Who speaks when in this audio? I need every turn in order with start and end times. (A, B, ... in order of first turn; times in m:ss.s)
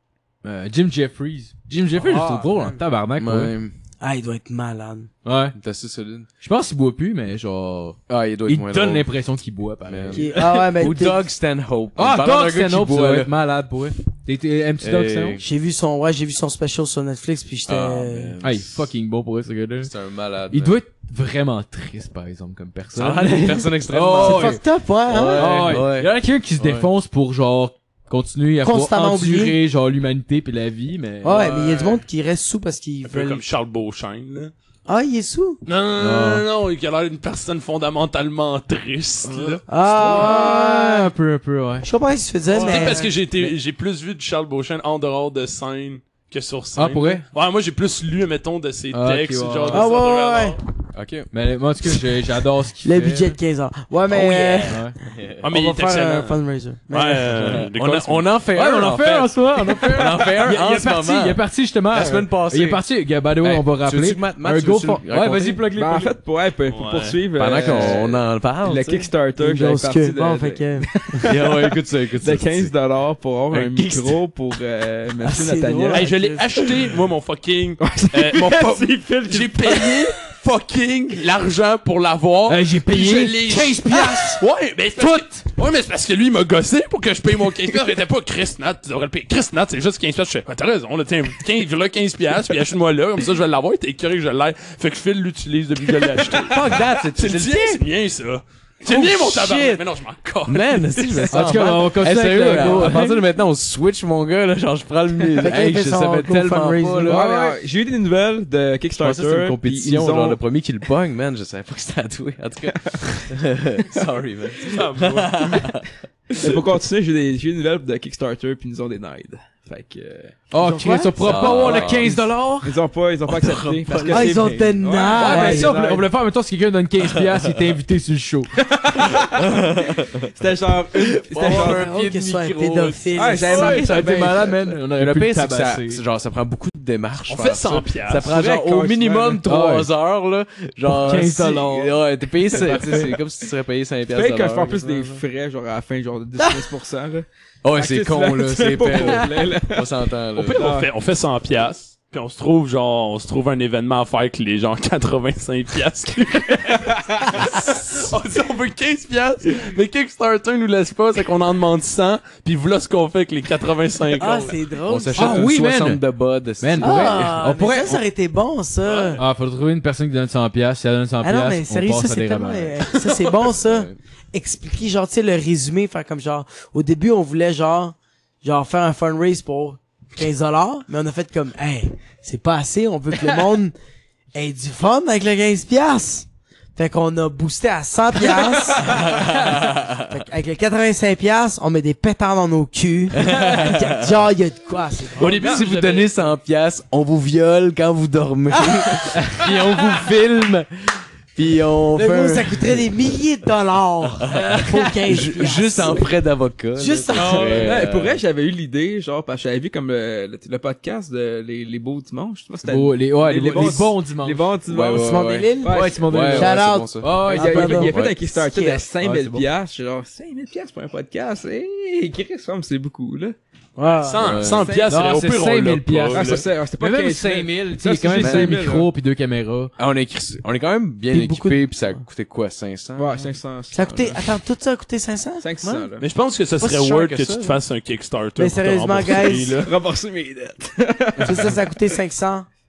0:00.4-0:03.5 A
0:01.9-0:02.8 B
0:03.2-0:03.7 C
0:04.0-0:05.1 B
0:05.2-0:05.6 A
0:05.5-0:06.3 C
0:06.4-0:10.4 A
0:08.1-0:09.1 C
0:09.9-0:13.3 C
0:10.1-0:11.3 B
0:12.0-0:15.4 A
0:14.8-0:15.4 C
0:15.4-0:18.4 B
0:17.7-0:18.9 C
0:18.4-0:19.9 A
0:19.8-0:20.8 C
0:20.5-0:24.6 A
0:22.9-0:26.9 C
0:24.2-0:25.8 B
0:25.3-0:31.5 A
0:28.6-0:29.6 B
0:31.2-0:33.4 B
0:31.3-0:32.0 D
0:33.0-0:34.5 D
0:34.9-0:35.6 B
0:35.6-0:39.6 D
0:36.0-0:36.4 C
0:39.7-0:41.1 B
0:39.8-0:41.9 A
0:41.8-0:43.1 B
0:42.5-0:50.6 D
0:42.5-0:43.0 C
0:46.7-0:47.2 A
0:48.9-0:49.9 A
0:49.7-0:50.6 B
0:50.9-0:51.3 C
0:51.3-0:53.4 A
0:52.8-0:54.9 B
0:54.1-0:55.4 C
0:54.1-0:54.7 D
0:54.7-0:54.9 A
0:55.4-0:56.4 D
0:55.4-0:57.6 B
0:56.9-0:58.3 D
0:57.3-1:02.8 C
0:58.5-1:06.2 A
1:03.4-1:05.6 C
1:05.7-1:16.1 E
1:06.7-1:07.2 D
1:07.3-1:09.1 C
1:07.6-1:08.0 A
1:09.4-1:11.3 B
1:11.2-1:12.7 C
1:13.5-1:14.2 C
1:15.2-1:16.6 B
1:15.9-1:41.5 D
1:17.8-1:20.0 E
1:22.4-1:24.4 A
1:25.0-1:25.4 A
1:36.5-1:37.7 C
1:36.5-1:37.8 A
1:38.8-1:39.8 C
1:40.4-1:47.2 C
1:41.3-1:43.2 A
1:45.4-1:47.2 B
1:47.0-1:47.6 A
1:47.1-1:50.4 E
1:49.0-1:56.5 C
1:52.7-1:53.1 E
1:54.7-1:55.3 D
1:56.4-2:06.0 E
2:00.5-2:02.8 A
2:00.6-2:01.1 B
2:01.2-2:02.2 C
2:03.3-2:04.7 C
2:04.1-2:05.7 B
2:05.1-2:08.5 A
2:08.6-2:12.0 E
2:09.0-2:10.2 C
2:11.0-2:13.4 C
2:11.4-2:13.8 B
2:13.1-2:14.6 E
2:13.2-2:16.0 A
2:14.9-2:25.0 C
2:17.3-2:18.2 D
2:18.2-2:19.4 E
2:19.4-2:19.9 A
2:20.8-2:23.2 A
2:22.7-2:23.0 E
2:24.1-2:29.9 E
2:27.6-2:30.7 C
2:30.4-2:44.6 D
2:30.5-2:30.9 E
2:44.2-2:45.5 B
2:44.8-2:47.4 C
2:45.1-2:46.0 A
2:46.6-2:48.0 A
2:46.8-2:49.2 B
2:49.2-2:52.8 A
2:51.2-3:03.7 B
2:53.4-2:54.0 C
3:04.3-3:09.2 B
3:08.9-3:10.0 C
3:10.1-3:15.6 B
3:13.2-3:14.2 C
3:15.2-3:22.8 C
3:15.2-3:16.1 D
3:19.1-3:19.4 A
3:22.0-3:26.1 B
3:24.3-3:28.2 C
3:24.3-3:24.9 A
3:26.8-3:27.8 B
3:27.1-3:27.7 A
3:27.3-3:36.2 E
3:32.6-3:34.5 A
3:33.5-3:33.8 B
3:34.7-3:37.1 C
3:34.9-3:38.8 B
3:35.6-3:38.0 A
3:37.2-3:43.3 E
3:37.8-3:38.4 C
3:38.9-3:39.5 A
3:43.8-3:44.4 B
3:44.0-3:46.4 D
3:44.2-3:44.7 C
3:44.4-3:45.1 E
3:44.9-3:49.7 A
3:46.1-3:48.9 E
3:48.2-3:48.6 C
3:49.8-3:53.2 C
3:51.1-3:51.8 B
3:53.0-3:54.2 E
3:53.7-3:55.9 B
3:55.4-3:56.0 E
3:56.0-3:59.7 D
3:56.6-3:57.6 C
3:58.4-3:59.6 B
3:59.1-4:01.6 E
4:01.2-4:02.5 B